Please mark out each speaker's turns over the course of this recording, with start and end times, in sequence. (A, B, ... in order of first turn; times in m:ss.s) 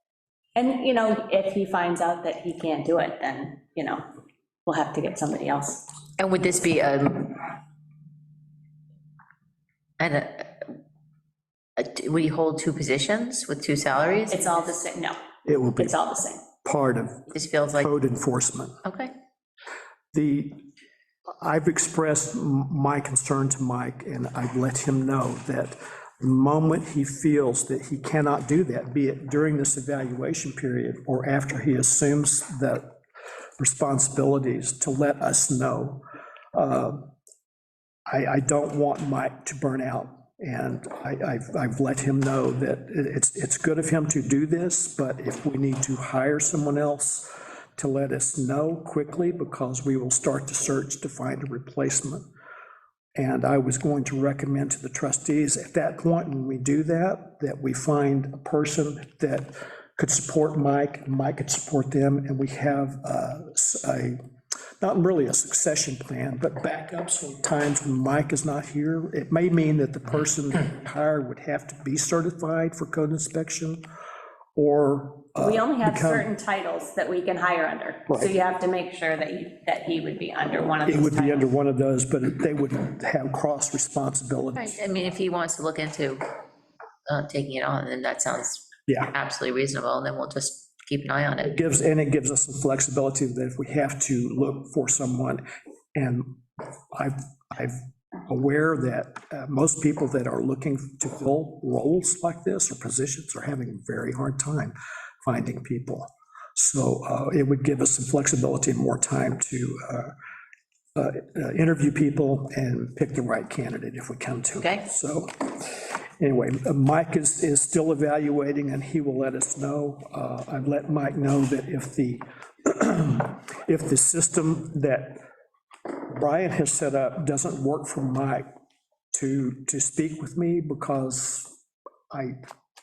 0:00.6-0:04.0 A
0:04.6-0:05.8 A
0:06.2-0:07.5 B
0:10.0-0:10.7 B
0:11.8-0:14.7 B
0:14.3-0:15.2 A
0:15.4-0:16.0 C
0:15.8-0:16.4 A
0:16.6-0:18.8 C
0:17.3-0:17.9 B
0:18.8-0:19.1 B
0:20.1-0:20.6 C
0:21.4-0:32.9 C
0:33.6-0:36.0 C
0:36.5-0:37.1 C
0:38.1-0:52.2 C
0:53.1-1:04.2 C
1:04.8-1:13.8 C
1:14.5-1:16.3 C
1:15.4-1:21.5 A
1:20.8-1:24.8 C
1:24.6-1:26.3 B
1:27.1-1:31.6 B
1:28.9-1:29.1 C
1:31.4-1:35.4 C
1:35.9-1:36.2 C
1:36.9-1:50.1 C
1:50.9-2:05.2 C
1:54.6-1:54.8 B
2:06.1-2:08.4 C
2:09.1-2:11.5 C
2:12.1-2:12.4 C